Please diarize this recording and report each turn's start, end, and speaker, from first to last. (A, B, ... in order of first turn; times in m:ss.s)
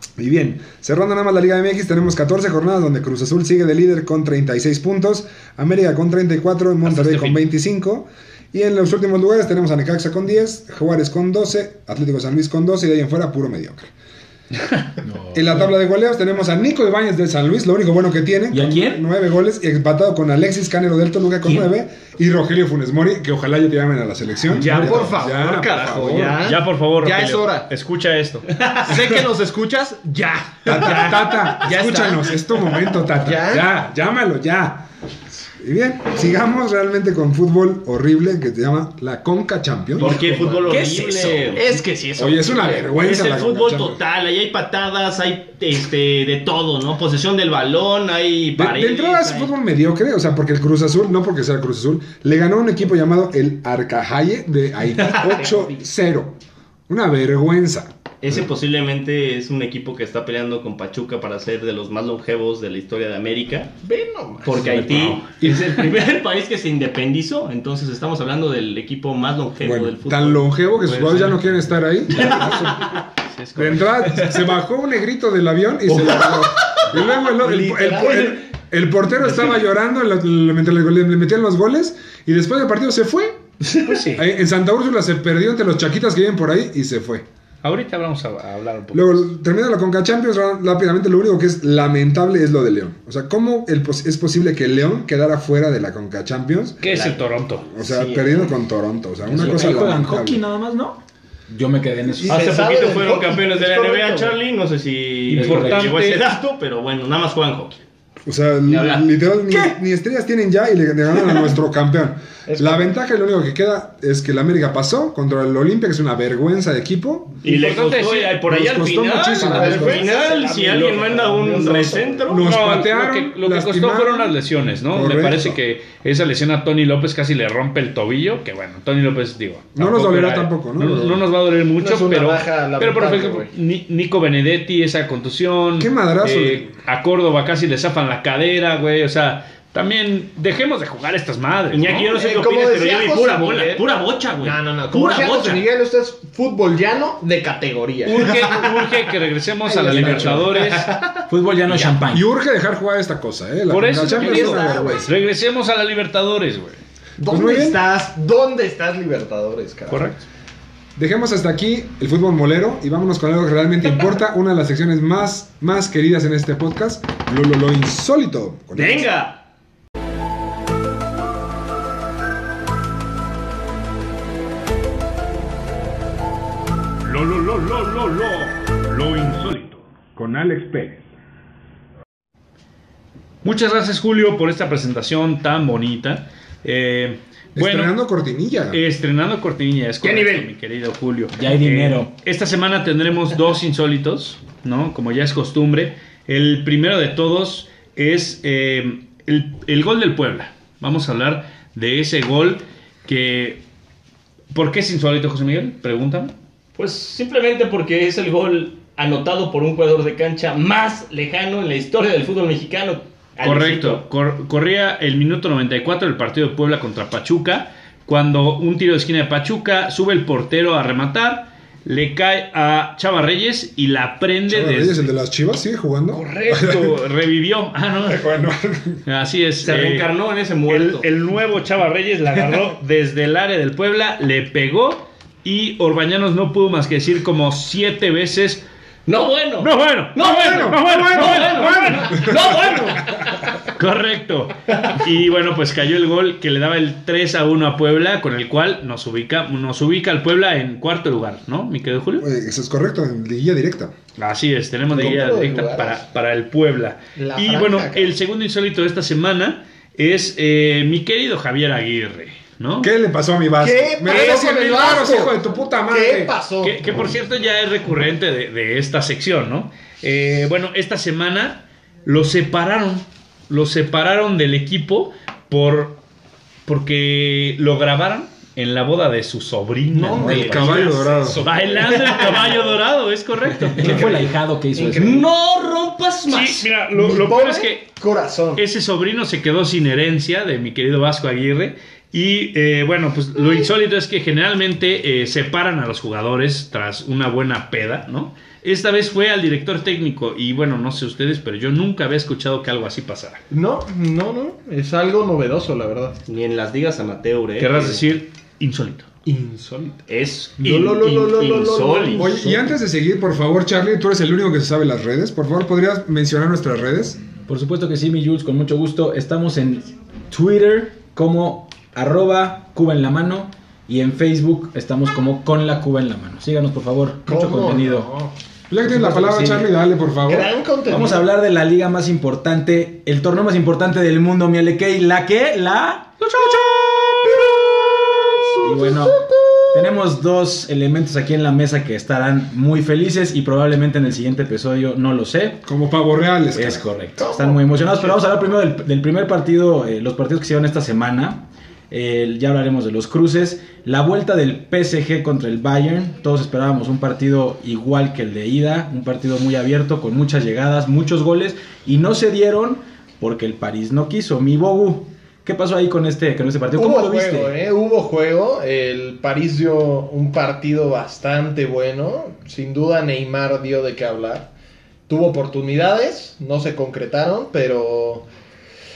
0:00.2-0:13.9 A
0:06.8-0:07.4 B
0:15.0-0:15.7 C
0:15.3-0:26.4 A
0:18.5-0:19.0 C
0:24.5-0:25.2 C
0:24.5-0:27.7 D
0:26.4-0:28.5 B
0:28.6-0:33.7 D
0:30.6-0:34.9 A
0:35.6-0:40.3 A
0:40.0-0:41.6 E
0:40.0-0:40.8 D
0:40.1-0:41.8 C
0:41.6-0:43.1 D
0:42.2-0:44.0 A
0:43.0-0:49.5 E
0:48.5-0:56.4 A
0:55.1-0:55.8 D
0:56.9-0:58.4 A
0:58.2-1:03.7 E
1:03.8-1:04.6 D
1:04.4-1:11.4 E
1:04.6-1:05.5 B
1:09.6-1:13.0 A
1:12.1-1:12.8 E
1:13.2-1:14.2 B
1:13.5-1:23.4 A
1:17.0-1:18.4 D
1:23.8-1:24.3 B
1:24.1-1:27.2 A
1:27.6-1:29.3 B
1:28.9-1:36.9 A
1:36.8-1:37.7 B
1:36.8-1:37.2 E
1:37.7-1:40.4 A
1:37.8-1:38.4 C
1:39.2-1:42.4 C
1:42.0-1:42.3 A
1:42.2-1:44.4 D
1:42.3-1:47.8 E
1:45.3-1:46.2 B
1:45.3-1:46.0 C
1:48.2-1:57.4 A
1:48.7-1:49.1 E
1:49.5-1:49.8 C
1:52.5-1:52.9 D
1:57.4-1:58.4 B
1:57.4-2:02.5 E
1:58.4-2:00.1 A
1:59.4-2:02.3 D
2:02.3-2:04.4 A
2:02.3-2:22.2 B
2:04.9-2:05.6 A
2:09.7-2:11.2 A
2:11.8-2:13.5 D
2:15.8-2:16.7 A
2:21.7-2:25.6 E
2:22.1-2:23.8 D
2:23.4-2:23.8 B
2:24.4-2:28.9 D
2:28.0-2:30.9 B
2:29.6-2:30.7 D
2:29.9-2:30.6 C
2:31.3-2:32.2 C
2:32.1-2:35.2 A
2:33.7-2:36.8 B
2:34.1-2:35.1 D
2:37.2-2:40.2 D
2:37.2-2:37.8 A
2:39.9-2:40.2 B
2:41.0-2:49.1 A
2:48.7-2:49.4 E
2:57.0-2:59.8 B
3:00.2-3:01.1 A
3:03.4-3:07.9 B
3:07.5-3:08.8 A
3:08.7-3:23.6 B
3:10.0-3:10.5 E
3:11.3-3:12.1 C
3:24.5-3:26.3 B
3:26.8-3:34.0 E
3:33.4-3:45.1 B
3:44.5-3:46.9 A
3:46.1-3:48.3 B
3:48.0-3:49.0 A
3:49.0-3:50.1 B
3:49.6-3:51.0 E
3:50.7-3:58.6 B
3:59.1-4:03.2 E
3:59.6-4:02.6 B
4:00.3-4:02.9 A
4:03.7-4:12.2 B
4:12.2-4:13.9 A
4:14.2-4:22.9 B
4:14.9-4:16.0 D
4:17.2-4:18.1 D
4:22.8-4:26.3 A
4:23.6-4:26.8 D
4:26.6-4:36.0 B
4:36.6-4:44.2 B
4:39.9-4:42.7 D
4:40.2-4:40.6 C
4:40.2-4:41.4 A
4:42.1-4:42.4 E
4:43.8-4:45.2 C
4:43.8-4:44.1 D
4:44.7-4:45.2 D
4:44.9-4:46.7 E
4:46.3-4:47.9 B
4:46.9-4:48.6 D
4:48.6-5:03.4 B
5:03.5-5:06.2 D
5:06.3-5:08.0 E
5:07.6-5:09.1 B
5:09.2-5:10.0 D
5:10.1-5:12.3 E
5:10.6-5:12.7 D
5:12.2-5:17.2 A
5:17.5-5:28.1 C
5:27.2-5:28.3 D
5:28.7-5:30.5 A
5:28.9-5:29.6 C
5:29.3-5:29.6 D
5:30.3-5:31.3 D
5:30.9-5:36.2 C
5:36.2-5:40.0 D
5:38.6-5:45.6 C
5:45.6-5:46.9 A
5:46.5-6:07.5 C
5:47.2-5:48.3 D
6:06.7-6:14.5 D
6:15.1-6:18.3 D